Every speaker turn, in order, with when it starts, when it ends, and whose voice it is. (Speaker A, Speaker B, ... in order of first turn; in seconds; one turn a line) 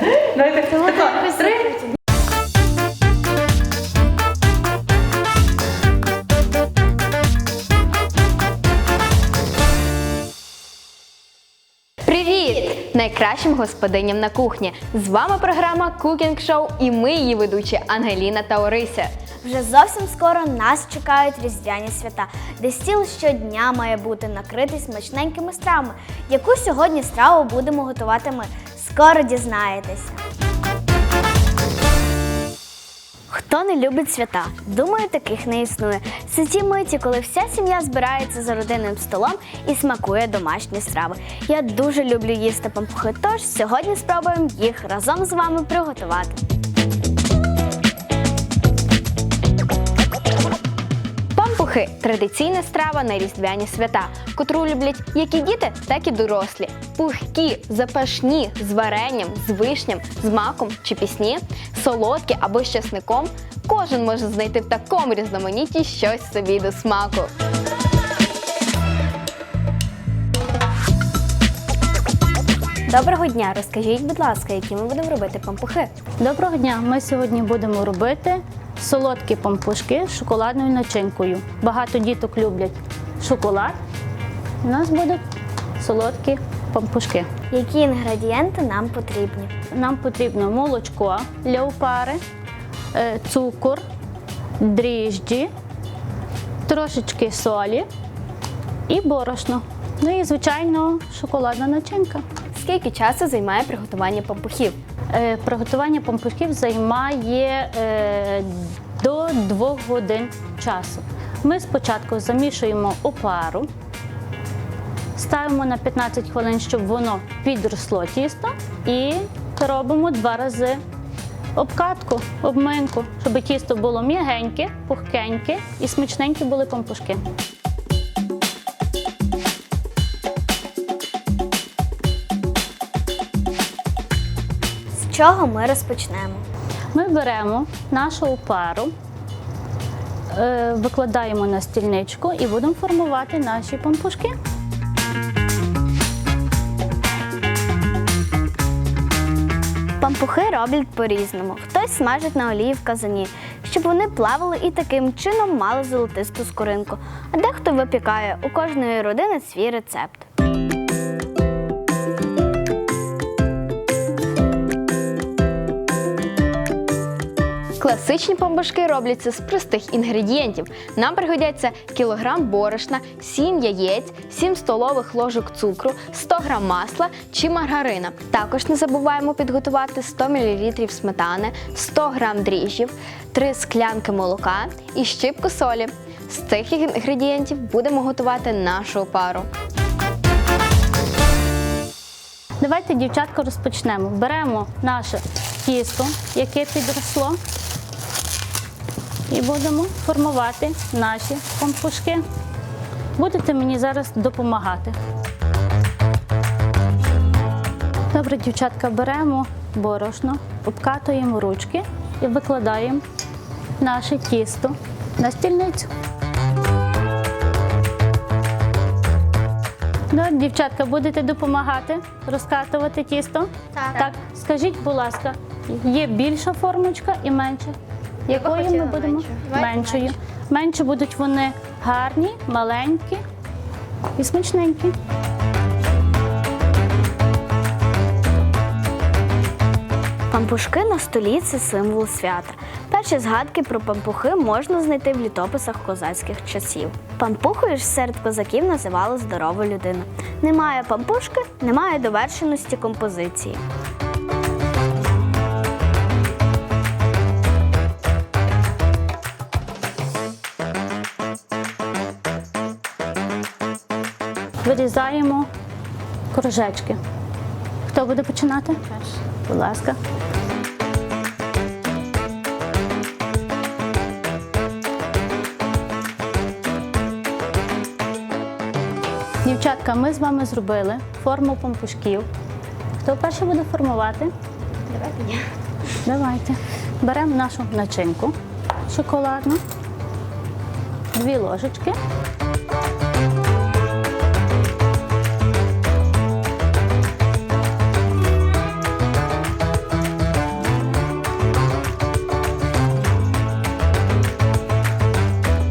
Speaker A: 0.7-1.6
Speaker B: 12.1-19.1
Speaker A: 19.4-30.2
Speaker A: 33.3-46.4
Speaker B: 51.3-67.3
Speaker B: 72.9-75.9
Speaker C: 76.2-83.8
Speaker C: 84.6-85.2
Speaker C: 85.8-87.3
Speaker A: 87.5-89.5
Speaker C: 89.7-92.2
Speaker C: 92.9-93.8
Speaker C: 94.6-95.5
Speaker C: 96.7-97.8
Speaker C: 98.9-102.2
Speaker B: 102.5-104.8
Speaker C: 105.1-113.7
Speaker C: 115.1-120.8
Speaker C: 121.5-127.2
Speaker A: 134.9-136.4
Speaker C: 136.9-138.9
Speaker C: 140.3-144.3
Speaker A: 150.0-160.2
Speaker B: 167.8-189.5
Speaker C: 192.6-197.4
Speaker C: 199.3-202.2
Speaker C: 203.2-204.9
Speaker C: 208.1-213.0
Speaker C: 213.8-215.9
Speaker C: 220.1-227.8
Speaker C: 228.3-233.2
Speaker A: 228.4-229.8
Speaker C: 234.2-234.9
Speaker A: 240.3-253.6
Speaker C: 264.6-265.5
Speaker C: 266.3-267.0
Speaker C: 267.9-270.0
Speaker C: 279.4-282.3
Speaker C: 283.0-284.3
Speaker A: 284.9-285.4
Speaker C: 286.0-288.3
Speaker C: 288.9-289.6
Speaker C: 291.1-292.0